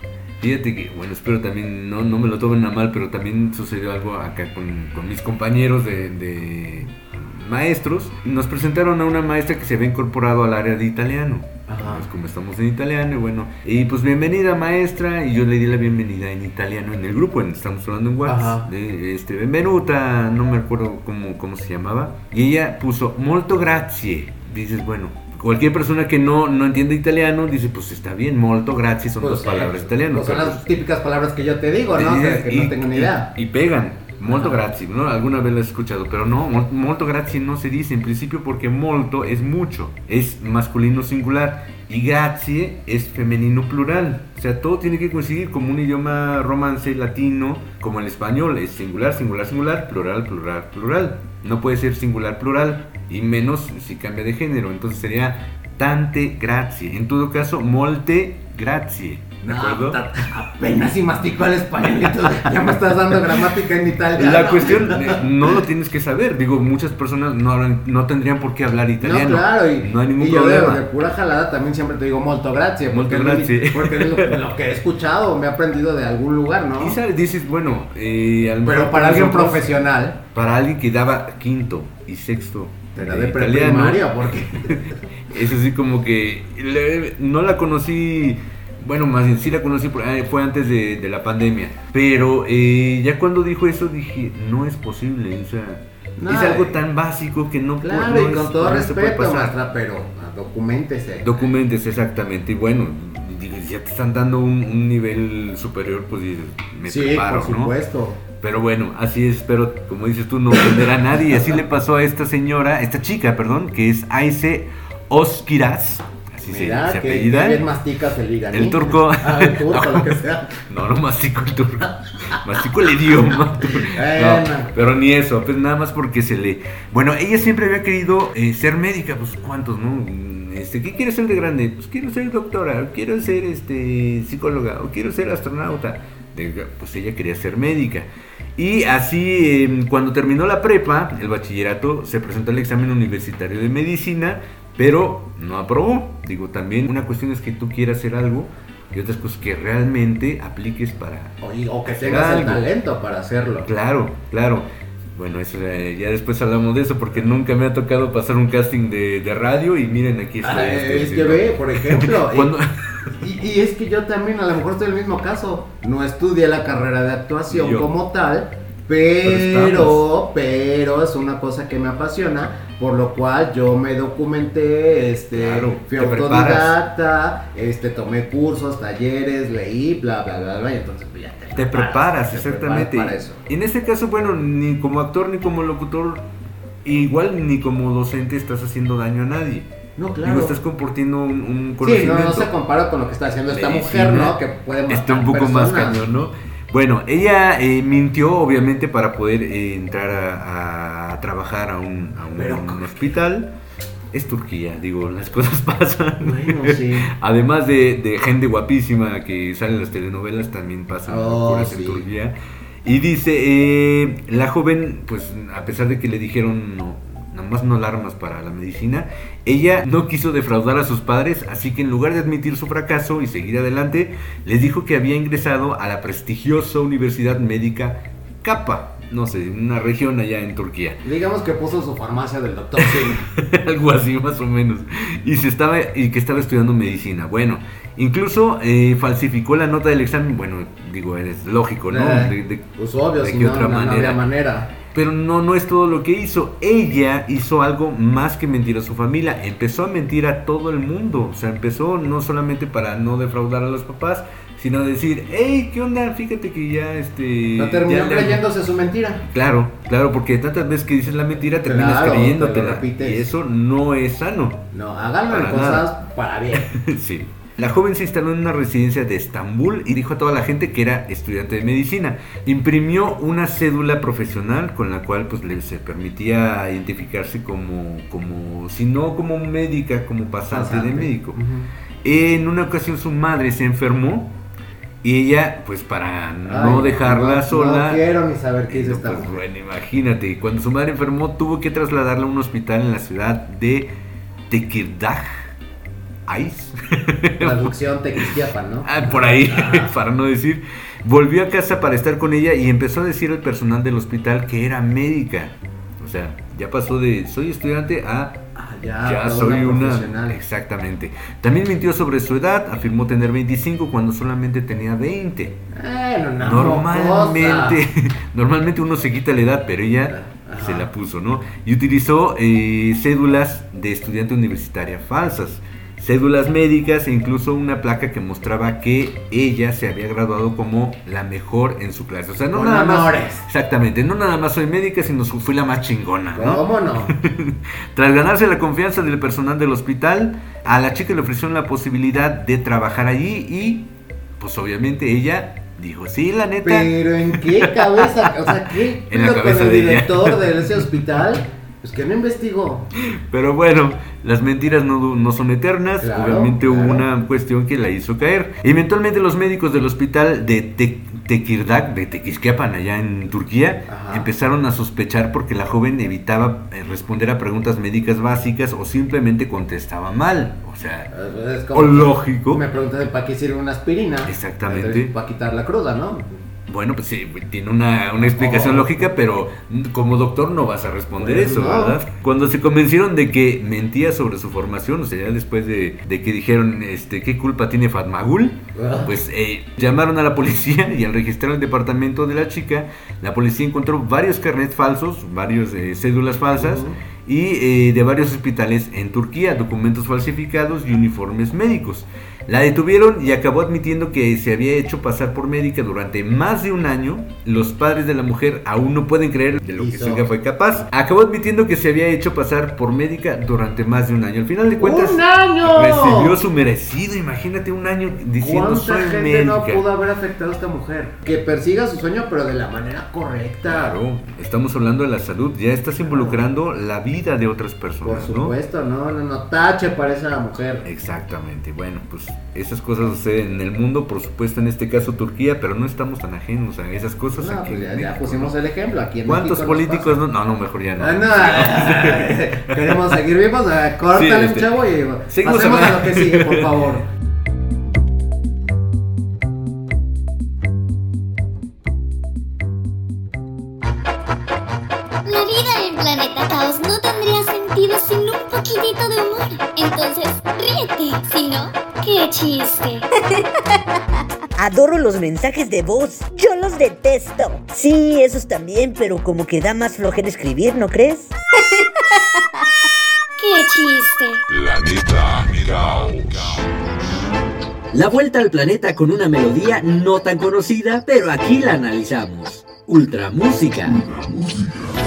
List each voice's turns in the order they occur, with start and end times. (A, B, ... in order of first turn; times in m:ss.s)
0:00.4-0:30.6 A
0:11.7-0:12.1 B
0:18.2-0:18.7 B
0:29.2-0:33.3 B
0:32.0-1:00.0 A
0:34.3-0:34.6 B
0:59.4-1:05.6 B
1:04.2-1:10.9 A
1:09.0-1:17.0 B
1:12.9-1:14.4 A
1:16.8-1:39.6 A
1:18.6-1:20.2 B
1:23.0-1:25.0 B
1:36.2-1:36.8 B
1:37.8-1:41.5 B
1:41.2-1:47.7 A
1:46.8-1:48.2 B
1:48.4-1:57.7 A
1:50.8-1:51.5 B
1:56.4-2:00.6 B
1:58.5-2:31.4 A
2:03.8-2:04.7 B
2:31.4-2:33.7 B
2:32.0-2:32.7 A
2:33.6-2:43.1 A
2:40.4-2:42.5 B
2:43.2-3:03.4 B
2:47.5-2:47.9 A
2:49.2-2:50.0 A
2:55.3-2:56.8 A
3:01.6-3:06.3 A
3:06.8-3:09.7 A
3:10.0-3:10.6 B
3:10.2-3:12.5 A
3:11.8-3:16.0 B
3:13.5-3:14.4 A
3:14.9-3:23.5 A
3:22.3-3:23.0 B
3:24.1-3:51.0 A
3:26.2-3:27.1 B
3:31.1-3:32.0 B
3:51.0-3:53.2 B
3:52.8-4:02.6 A
4:01.9-4:04.7 B
4:03.2-4:04.2 A
4:04.9-4:18.4 A
4:17.6-4:19.2 B
4:19.3-4:24.6 A
4:21.7-4:23.3 B
4:24.7-4:26.7 B
4:25.3-4:25.9 A
4:26.6-4:41.4 A
4:40.5-4:41.7 B
4:42.0-4:44.4 A
4:45.0-4:48.0 A
4:46.5-4:49.4 B
4:48.7-4:53.9 A
4:54.5-4:55.5 A
4:56.3-4:58.3 A
4:57.4-4:59.9 B
4:58.8-5:08.4 A
5:08.6-5:10.4 B
5:09.0-5:15.6 A
5:15.7-5:17.8 B
5:16.4-5:43.9 A
5:20.1-5:20.9 B
5:32.5-5:33.4 B
5:36.3-5:37.1 B
5:44.4-5:48.5 A
5:46.6-5:52.9 B
5:49.1-5:50.8 A
5:53.1-6:11.1 A
5:56.0-5:57.0 B
6:03.9-6:04.3 B
6:11.1-6:16.3 B
6:11.7-6:12.6 A
6:14.2-6:15.1 A
6:16.7-6:59.8 A
6:18.4-6:19.1 B
6:21.2-6:22.0 B
6:28.8-6:29.2 B
6:36.6-6:37.0 B
6:49.8-6:50.3 B
6:54.8-6:56.4 B
6:58.4-7:04.0 B
7:03.7-7:08.5 A
7:06.0-7:06.4 B
7:08.0-7:10.8 B
7:10.8-7:18.6 A
7:17.3-7:20.2 B
7:19.2-7:23.2 A
7:21.0-7:27.1 B
7:24.1-7:24.7 A
7:25.3-7:26.7 A
7:35.2-7:43.0 C
7:44.6-7:51.3 D
7:53.4-7:54.4 C
7:54.5-7:56.5 E
7:58.0-8:03.9 F